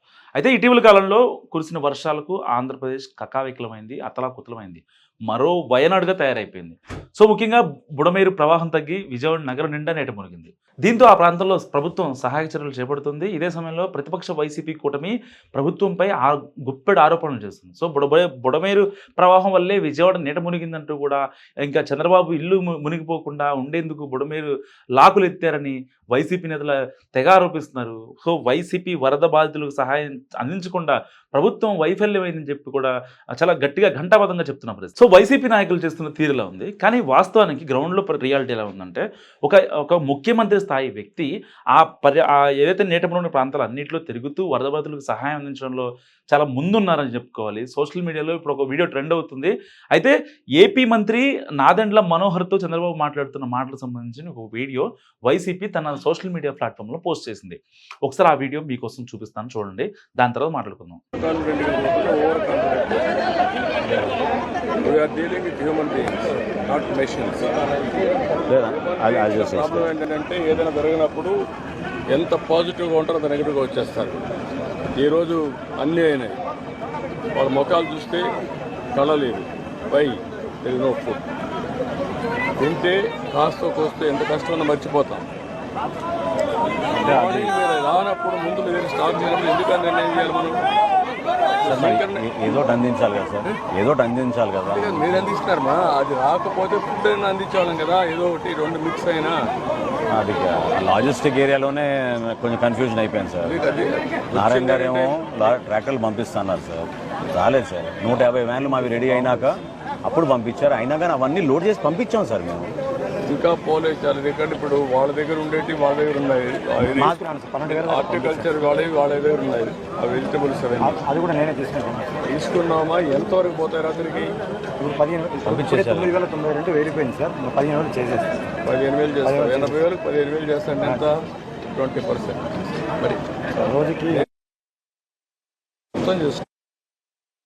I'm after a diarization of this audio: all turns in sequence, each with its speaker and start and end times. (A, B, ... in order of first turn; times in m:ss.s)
0:00.4-1:01.0 A
1:01.2-1:03.2 B
1:04.8-1:07.5 B
1:08.5-1:09.9 C
1:08.7-1:11.4 B
1:12.1-1:14.2 B
1:15.0-1:16.4 B
1:17.4-1:18.3 B
1:19.0-1:21.2 B
1:22.6-1:25.3 B
1:26.9-1:30.6 B
1:27.0-1:27.6 C
1:31.6-1:32.7 B
1:31.6-1:35.3 C
1:34.7-1:39.4 B
1:40.1-1:43.6 C
1:43.4-1:45.2 B
1:44.3-1:52.7 C
1:53.3-2:01.0 B
1:56.8-1:58.6 D
2:00.8-2:02.1 D
2:02.3-2:04.4 B
2:04.8-2:08.4 D
2:05.4-2:06.2 C
2:08.6-2:11.2 B
2:09.2-2:09.9 D
2:11.7-2:12.4 B
2:13.6-2:14.2 D
2:16.0-2:16.4 B